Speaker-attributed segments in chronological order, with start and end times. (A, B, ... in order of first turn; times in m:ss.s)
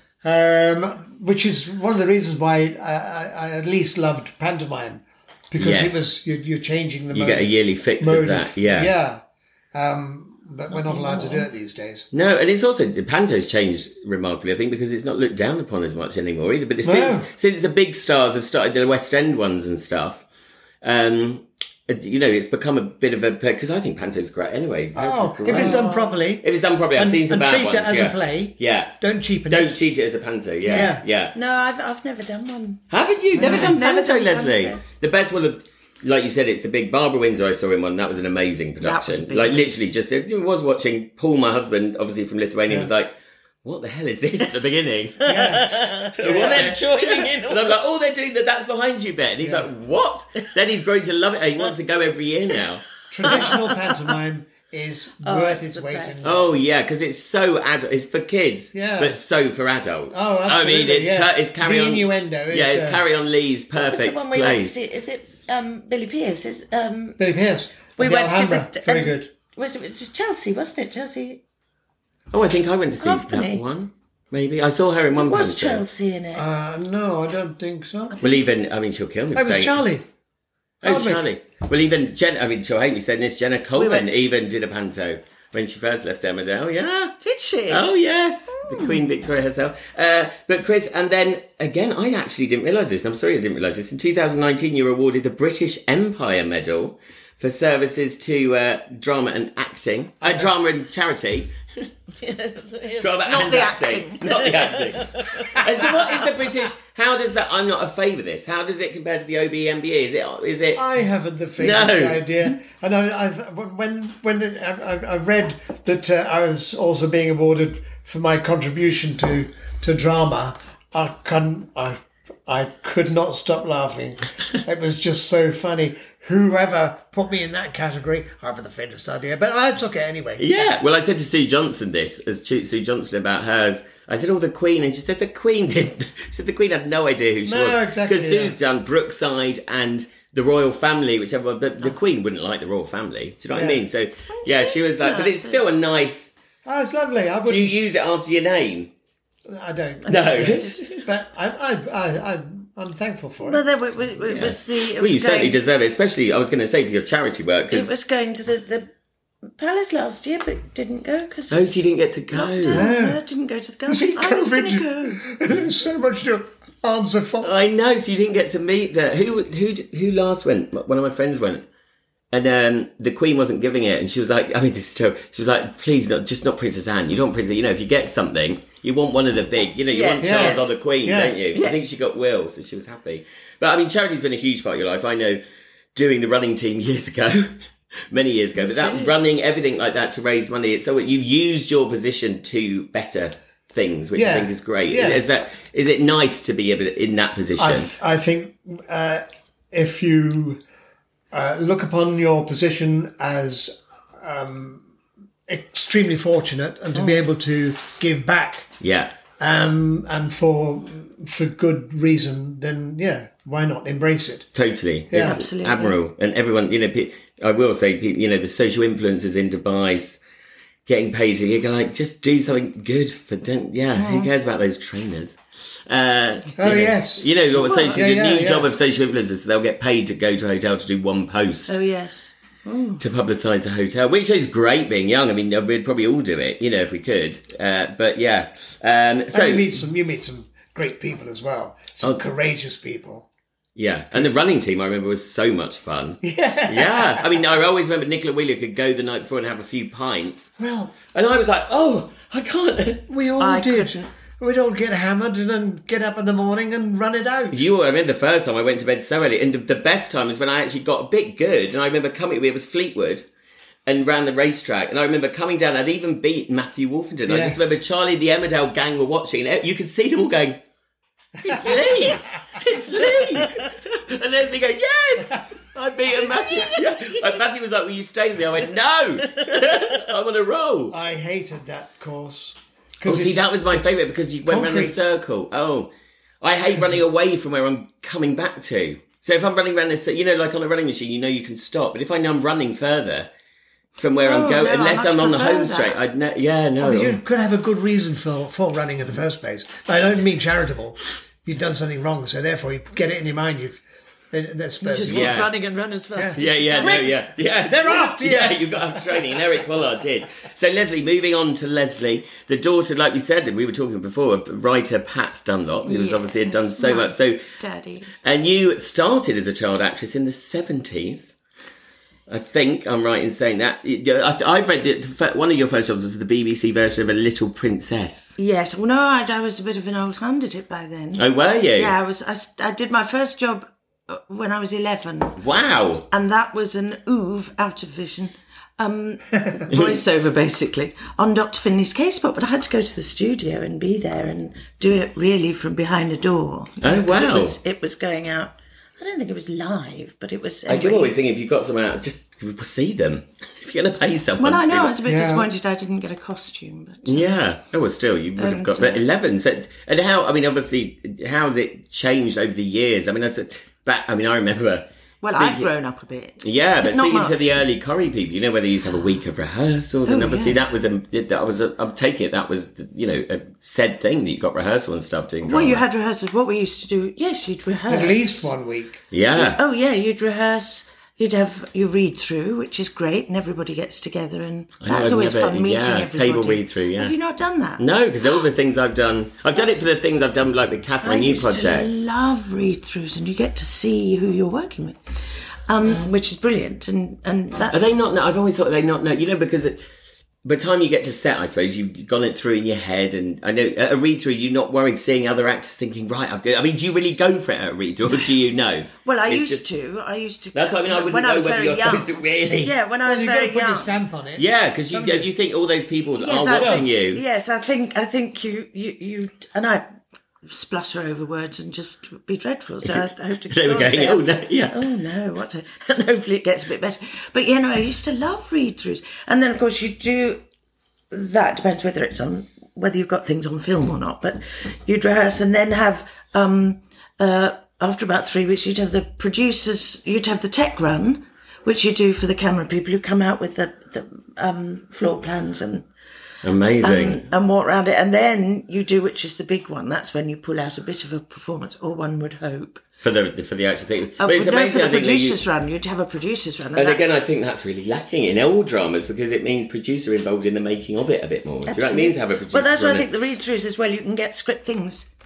0:00.2-0:09.2 A
0:05.6-0:06.1 B
0:07.1-0:08.9 B
0:09.7-0:12.1 A
0:10.7-0:11.5 C
0:12.1-0:20.2 B
0:16.8-0:17.3 A
0:20.8-0:29.0 B
0:25.0-0:29.8 A
0:25.5-0:26.2 C
0:29.5-0:31.4 B
0:30.6-0:32.8 C
0:30.7-0:31.0 A
0:32.9-0:43.1 B
0:33.4-0:33.8 A
0:33.4-0:34.8 C
0:38.8-0:39.7 C
0:43.6-0:45.6 B
0:45.2-0:47.7 C
0:45.3-0:46.8 A
0:46.2-0:52.9 B
0:49.4-0:49.7 A
0:53.1-0:56.6 A
0:53.3-0:53.9 C
0:55.2-0:56.3 C
0:56.2-1:04.7 B
0:58.7-0:59.2 A
1:00.1-1:03.0 A
1:03.7-1:07.2 C
1:07.2-1:09.3 A
1:08.0-1:11.4 C
1:12.3-1:15.8 B
1:13.0-1:13.6 C
1:15.2-1:16.4 C
1:16.4-1:18.2 A
1:18.2-1:19.8 B
1:19.3-1:20.1 A
1:20.8-1:27.2 B
1:20.8-1:21.2 A
1:23.8-1:24.3 C
1:27.2-1:27.9 C
1:27.7-1:41.9 B
1:28.5-1:29.0 C
1:40.2-1:40.5 A
1:42.2-1:46.3 C
1:43.0-1:50.9 B
1:50.7-2:10.7 A
1:51.6-1:52.5 B
2:10.4-2:26.3 B
2:17.4-2:18.6 A
2:23.5-2:23.8 A
2:24.3-2:25.6 C
2:26.6-2:27.8 A
2:27.5-2:28.9 B
2:29.5-2:33.6 A
2:30.0-2:30.8 C
2:30.1-2:31.0 B
2:33.4-2:35.6 C
2:34.2-2:37.9 B
2:37.7-2:38.9 C
2:39.6-2:45.2 C
2:41.5-2:42.9 B
2:42.7-2:43.2 A
2:43.9-2:47.5 A
2:47.4-2:51.6 B
2:52.3-3:05.4 B
2:59.9-3:00.7 C
3:00.2-3:01.4 A
3:01.5-3:01.9 C
3:06.0-3:07.6 B
3:08.1-3:17.9 B
3:08.6-3:09.1 C
3:14.2-3:15.2 A
3:17.6-3:20.6 A
3:21.3-3:24.8 A
3:25.5-3:28.7 A
3:27.0-3:27.2 C
3:28.8-3:29.1 B
3:29.4-3:34.5 A
3:34.6-3:40.2 B
3:35.1-3:35.4 A
3:35.2-3:36.0 C
3:40.9-3:51.8 B
3:44.0-3:44.3 C
3:46.6-3:48.7 A
3:47.6-3:48.0 C
3:51.7-3:53.0 C
3:53.0-3:59.8 B
3:59.3-4:03.3 A
4:03.8-4:10.5 B
4:06.2-4:07.6 A
4:10.6-4:11.0 A
4:11.1-4:13.1 B
4:13.1-4:17.6 A
4:13.4-4:14.1 C
4:17.5-4:23.2 B
4:23.9-4:30.6 B
4:27.3-4:27.6 A
4:31.4-4:32.6 A
4:31.4-4:41.0 B
4:40.9-4:45.0 A
4:43.0-4:45.9 B
4:46.4-4:53.3 B
4:46.7-4:47.0 A
4:54.0-4:57.2 B
4:54.2-4:56.0 C
4:56.8-5:05.4 A
5:04.8-5:07.2 C
5:05.0-5:05.5 B
5:06.2-5:09.4 A
5:06.4-5:17.4 B
5:15.8-5:18.1 C
5:18.2-5:21.4 B
5:22.3-5:28.4 B
5:28.4-5:35.4 C
5:31.2-5:31.9 B
5:35.4-5:36.1 B
5:36.1-5:51.2 C
5:39.7-5:40.0 B
5:46.8-5:47.6 B
5:50.7-5:55.0 B
5:54.4-5:57.4 C
5:55.0-5:55.5 A
5:57.1-6:05.7 B
5:58.4-5:59.0 C
6:05.2-6:07.4 C
6:06.4-6:15.8 B
6:10.1-6:10.6 C
6:15.4-6:18.5 C
6:17.9-6:19.0 A
6:19.1-6:19.6 B
6:19.4-6:27.8 C
6:24.8-6:27.2 B
6:27.8-6:31.9 B
6:31.0-6:35.0 C
6:35.7-6:37.8 C
6:37.7-6:39.8 B
6:40.4-6:49.6 B
6:49.0-6:53.9 C
6:50.5-6:52.7 B
6:53.0-6:55.3 A
6:54.4-6:57.2 B
6:56.2-6:59.8 C
6:56.6-6:56.9 A
7:00.4-7:10.4 C
7:03.5-7:04.8 B
7:11.1-7:25.9 C
7:26.4-7:27.2 B
7:26.8-7:32.8 C
7:33.0-7:35.4 B
7:34.2-7:37.1 C
7:36.8-7:43.1 B
7:41.7-7:45.1 C